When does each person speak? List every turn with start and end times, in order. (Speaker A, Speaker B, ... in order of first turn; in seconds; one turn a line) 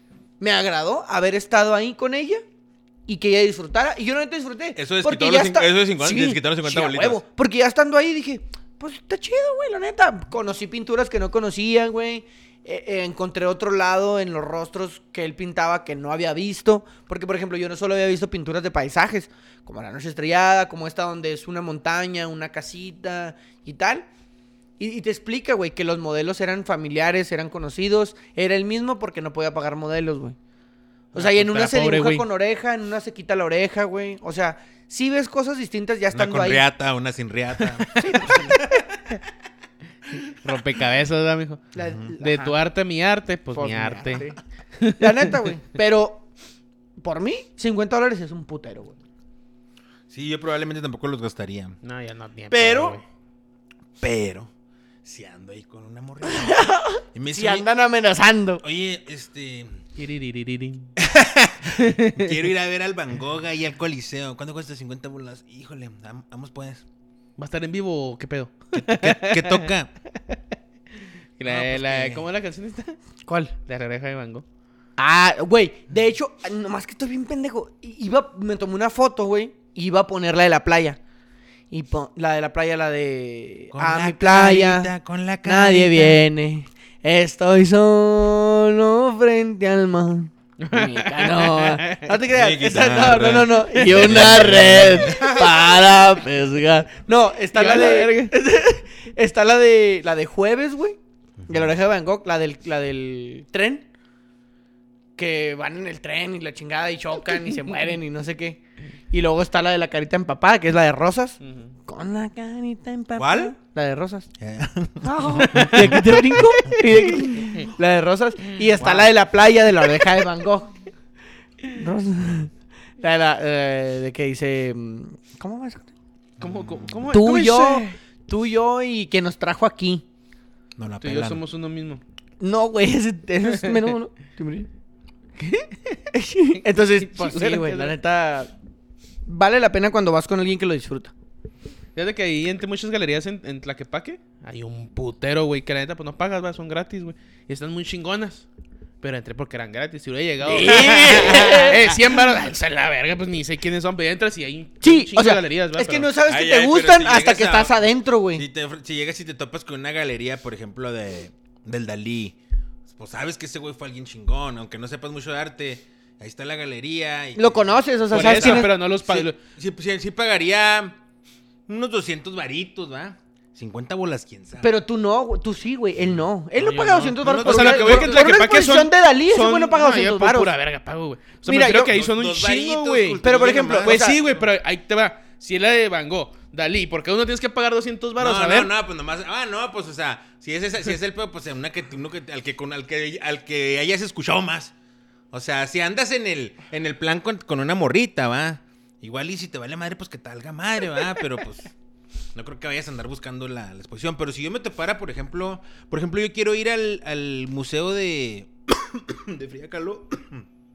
Speaker A: 0.4-2.4
Speaker A: 3.1-24.1
Speaker B: 4.8-7.2
Speaker A: 24.8-30.4
Speaker A: 31.1-36.6
Speaker C: 31.1-32.2
Speaker B: 36.1-37.9
Speaker C: 37.7-38.3
Speaker A: 37.9-38.7
Speaker B: 38.4-39.2
Speaker B: 40.1-40.5
Speaker C: 40.3-41.6
Speaker A: 41.7-42.6
Speaker B: 41.8-42.1
Speaker C: 42.2-45.5
Speaker A: 43.5-44.4
Speaker A: 45.0-46.3
Speaker A: 47.0-49.0
Speaker B: 50.1-51.8
Speaker C: 51.8-53.0
Speaker B: 52.5-53.0
Speaker B: 54.0-54.5
Speaker B: 55.0-57.7
Speaker A: 56.2-58.6
Speaker B: 58.6-59.8
Speaker C: 60.0-60.9
Speaker B: 61.0-66.8
Speaker C: 61.8-62.4
Speaker C: 67.4-69.7
Speaker B: 68.7-69.9
Speaker C: 71.0-73.0
Speaker B: 71.4-72.2
Speaker A: 73.2-73.5
Speaker C: 73.7-74.4
Speaker A: 75.0-81.0
Speaker A: 81.7-84.9
Speaker B: 83.7-86.2
Speaker A: 85.4-101.0
Speaker C: 90.6-92.1
Speaker B: 92.3-95.7
Speaker C: 97.5-98.3
Speaker B: 101.4-101.7
Speaker A: 101.5-103.8
Speaker A: 105.2-108.6
Speaker A: 109.1-114.3
Speaker C: 111.4-111.7
Speaker B: 113.2-113.5
Speaker B: 114.4-117.2
Speaker A: 115.0-120.7
Speaker C: 115.4-116.0
Speaker B: 118.8-119.1
Speaker A: 121.7-125.9
Speaker B: 126.4-127.2
Speaker C: 126.4-127.8
Speaker A: 127.1-130.0
Speaker B: 130.8-131.4
Speaker C: 131.0-132.0
Speaker A: 132.4-134.7
Speaker A: 135.4-138.5
Speaker C: 136.8-137.9
Speaker A: 139.2-141.1
Speaker C: 141.9-148.4
Speaker C: 149.0-156.1
Speaker A: 150.4-152.2
Speaker A: 154.8-158.4
Speaker B: 156.2-171.0
Speaker A: 167.3-168.7
Speaker C: 168.1-169.4
Speaker B: 171.7-174.7
Speaker A: 174.6-180.5
Speaker C: 176.6-183.2
Speaker B: 177.2-178.4
Speaker A: 181.4-181.9
Speaker B: 181.8-184.4
Speaker A: 183.2-184.2
Speaker C: 183.8-188.7
Speaker B: 188.2-194.7
Speaker B: 195.3-201.7
Speaker B: 202.3-210.4